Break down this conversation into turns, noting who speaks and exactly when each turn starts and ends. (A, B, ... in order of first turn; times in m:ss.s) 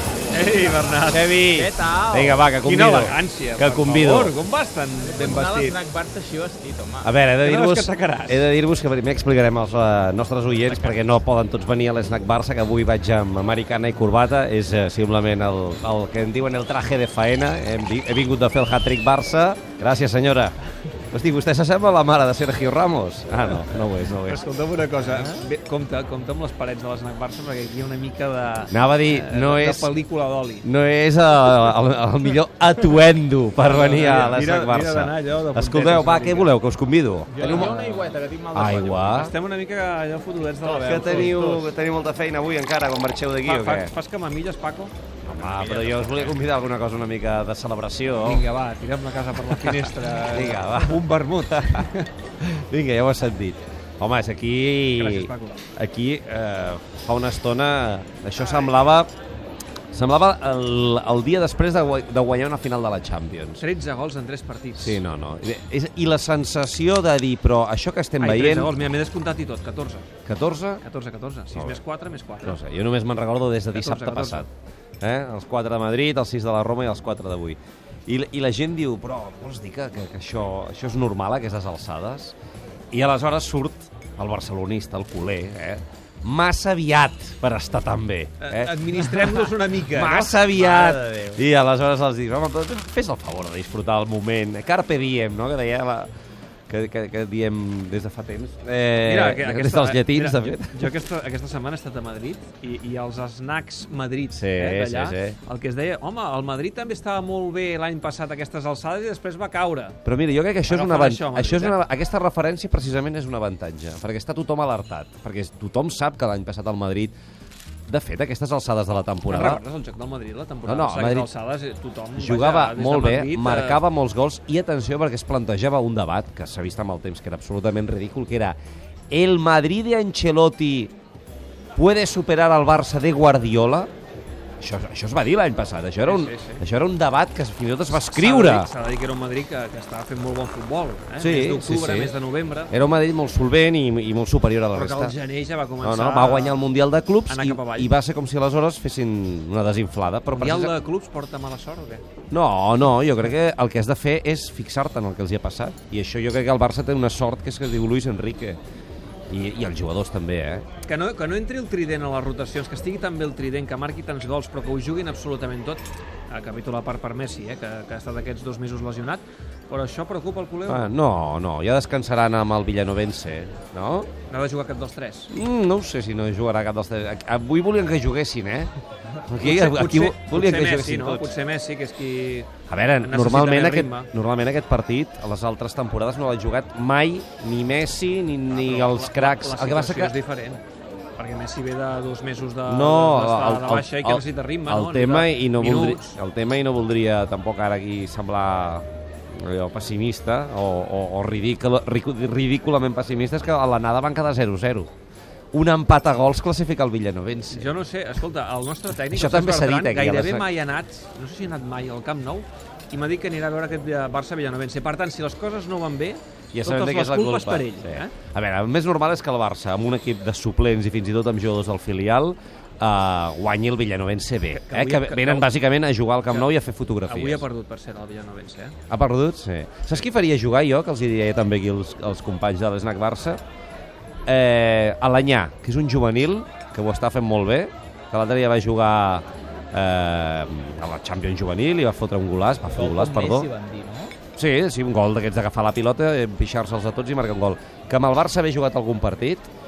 0:00.3-0:01.3 A
0:01.1-0:04.3 B
0:01.5-0:02.4 C
0:02.6-0:05.8 A
0:05.0-0:07.1 C
0:07.0-0:20.5 B
0:07.4-0:08.4 A
0:21.1-0:24.4 B
0:24.1-0:30.6 A
0:28.7-0:29.9 B
0:30.6-0:37.7 B
0:33.6-0:36.5 A
0:37.3-0:39.1 C
0:37.4-0:38.1 A
0:38.5-0:39.3 B
0:39.1-0:41.4 A
0:40.6-0:41.7 C
0:40.8-0:43.9 B
0:43.4-0:44.9 A
0:45.2-0:48.5 B
0:45.6-0:46.1 C
0:48.2-0:52.1 A
0:49.5-0:59.1 B
0:54.9-0:55.6 A
0:59.9-1:03.6 B
1:03.6-1:05.0 A
1:04.8-1:08.7 B
1:08.2-1:10.1 A
1:10.2-1:10.8 B
1:10.8-1:12.6 A
1:11.5-1:11.8 B
1:12.4-1:14.5 B
1:13.7-1:14.4 A
1:15.0-1:22.3 B
1:22.9-1:36.1 B
1:28.4-1:31.4 A
1:36.7-1:40.9 B
1:39.0-1:50.0 A
1:44.3-1:45.4 B
1:50.0-1:57.1 B
1:50.7-1:51.8 A
1:57.9-1:59.6 B
1:59.2-2:03.8 A
2:00.6-2:01.3 B
2:02.2-2:08.6 B
2:09.1-2:10.9 B
2:11.8-2:13.9 B
2:14.6-2:18.7 B
2:16.0-2:16.6 A
2:17.9-2:22.7 A
2:21.2-2:22.1 B
2:22.7-2:25.2 B
2:24.7-2:26.6 A
2:25.8-2:30.7 B
2:27.3-2:27.9 A
2:30.3-2:32.0 A
2:32.3-2:38.6 B
2:39.3-2:40.6 B
2:40.8-2:50.9 A
2:50.7-2:54.1 B
2:54.3-2:55.3 A
2:55.3-2:58.7 B
2:59.3-3:01.3 B
2:59.4-3:02.5 A
3:02.7-3:10.1 B
3:03.0-3:04.1 A
3:08.5-3:10.6 A
3:11.2-3:16.2 A
3:12.6-3:24.9 B
3:25.5-3:27.7 B
3:27.5-3:38.1 A
3:29.1-3:30.5 B
3:36.5-3:47.4 B
3:44.5-3:45.5 A
3:46.3-3:46.5 A
3:47.0-3:48.8 A
3:48.9-3:53.4 B
3:54.3-4:03.5 B
4:02.7-4:04.1 C
4:04.4-4:09.5 B